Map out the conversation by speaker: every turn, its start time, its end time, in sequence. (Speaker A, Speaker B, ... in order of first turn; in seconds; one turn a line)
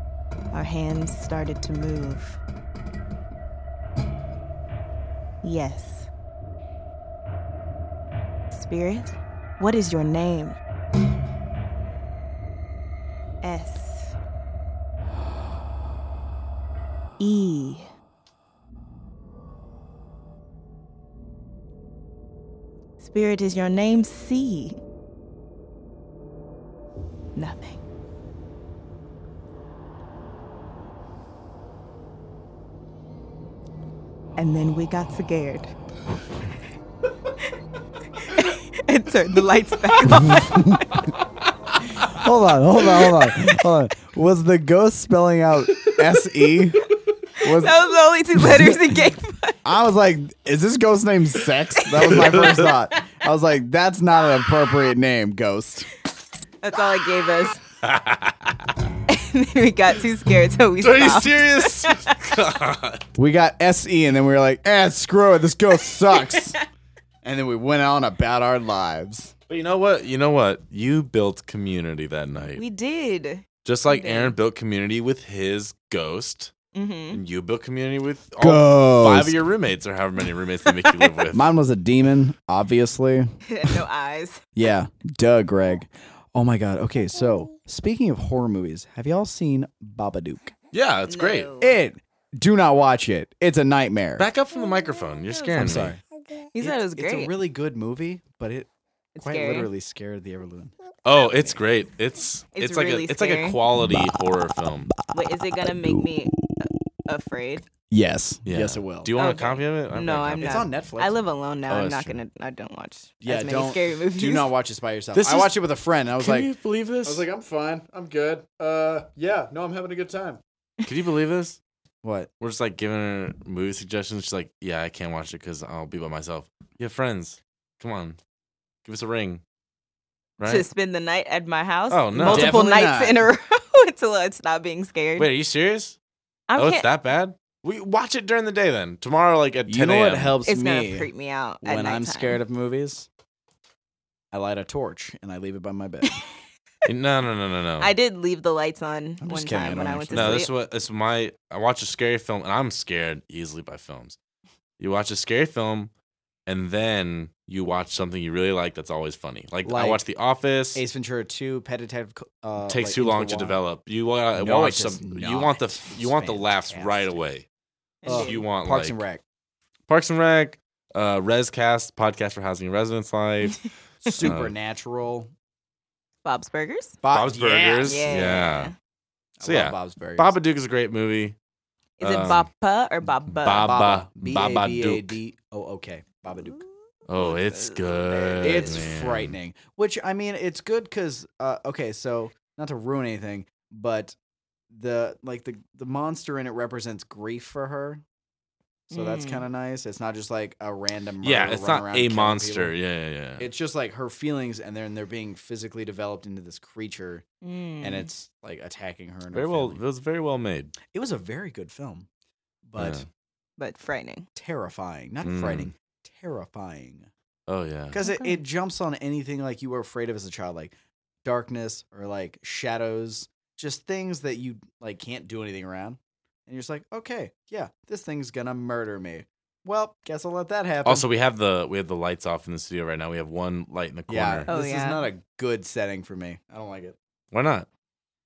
Speaker A: 0.5-2.4
Speaker A: 5.4-6.1
Speaker A: 8.5-10.6
Speaker A: 13.4-14.2
Speaker A: 17.2-17.9
Speaker A: 23.0-24.8
Speaker A: 27.4-27.8
Speaker A: 34.4-35.7
Speaker A: 38.2-41.1
Speaker B: 40.2-40.9
Speaker B: 42.1-49.0
Speaker A: 47.4-49.6
Speaker B: 49.6-55.9
Speaker A: 52.0-52.4
Speaker C: 52.1-52.5
Speaker A: 56.6-57.6
Speaker C: 57.8-58.6
Speaker A: 59.1-62.2
Speaker C: 60.8-63.0
Speaker B: 63.2-66.6
Speaker A: 66.2-66.5
Speaker B: 67.2-69.3
Speaker C: 69.5-72.6
Speaker A: 72.6-74.3
Speaker C: 73.7-76.5
Speaker A: 76.7-77.2
Speaker C: 77.1-81.5
Speaker B: 78.4-79.3
Speaker A: 80.8-81.1
Speaker B: 81.3-83.8
Speaker A: 83.5-84.4
Speaker B: 84.6-90.5
Speaker C: 90.7-91.5
Speaker A: 91.1-91.8
Speaker B: 91.6-94.3
Speaker C: 94.2-96.0
Speaker A: 95.3-95.6
Speaker B: 95.5-96.0
Speaker A: 96.5-97.3
Speaker B: 96.6-98.7
Speaker A: 99.2-99.7
Speaker B: 99.2-100.7
Speaker C: 101.0-105.0
Speaker A: 102.6-103.6
Speaker A: 105.1-107.7
Speaker B: 105.5-106.7
Speaker B: 107.9-109.1
Speaker C: 108.5-110.7
Speaker A: 109.2-114.5
Speaker B: 110.4-111.2
Speaker C: 111.7-112.2
Speaker B: 113.2-116.5
Speaker C: 115.2-115.5
Speaker C: 116.2-117.3
Speaker B: 117.0-120.4
Speaker C: 120.8-121.6
Speaker B: 122.0-122.3
Speaker C: 122.4-128.2
Speaker C: 128.8-129.4
Speaker C: 130.4-130.7
Speaker A: 130.4-135.3
Speaker C: 131.9-132.6
Speaker B: 132.2-133.3
Speaker C: 135.2-136.0
Speaker A: 136.5-136.9
Speaker C: 136.6-140.3
Speaker B: 139.7-141.1
Speaker A: 140.4-142.4
Speaker B: 141.6-143.1
Speaker B: 144.3-146.2
Speaker C: 146.8-147.9
Speaker A: 147.8-150.5
Speaker B: 149.2-150.5
Speaker C: 150.1-154.2
Speaker C: 154.8-155.9
Speaker C: 156.5-160.8
Speaker B: 159.6-160.0
Speaker B: 160.8-163.6
Speaker C: 162.7-167.5
Speaker B: 164.3-167.2
Speaker A: 168.0-168.4
Speaker B: 168.1-169.2
Speaker C: 168.1-169.0
Speaker C: 169.9-174.5
Speaker B: 174.1-175.3
Speaker A: 176.2-177.0
Speaker B: 177.0-178.4
Speaker C: 177.1-178.7
Speaker A: 177.9-178.8
Speaker B: 179.4-180.4
Speaker C: 179.4-181.4
Speaker A: 182.0-183.8
Speaker C: 182.0-182.5
Speaker C: 183.3-185.2
Speaker B: 183.6-186.6
Speaker A: 186.4-188.8
Speaker C: 187.1-189.3
Speaker B: 188.4-194.2
Speaker B: 194.7-198.0
Speaker B: 198.9-202.8
Speaker A: 198.9-199.5
Speaker C: 201.2-203.5
Speaker B: 203.4-207.2
Speaker A: 207.4-208.1
Speaker B: 207.8-209.8
Speaker C: 209.3-210.7
Speaker B: 210.9-212.1
Speaker B: 212.7-213.1
Speaker C: 212.8-213.1
Speaker A: 213.6-214.3
Speaker B: 214.4-217.1
Speaker C: 215.2-215.7
Speaker C: 217.5-218.0
Speaker B: 217.9-220.7
Speaker A: 218.0-218.4
Speaker B: 221.2-231.1
Speaker C: 230.8-234.5
Speaker B: 234.1-237.0
Speaker A: 234.5-235.1
Speaker C: 237.3-237.7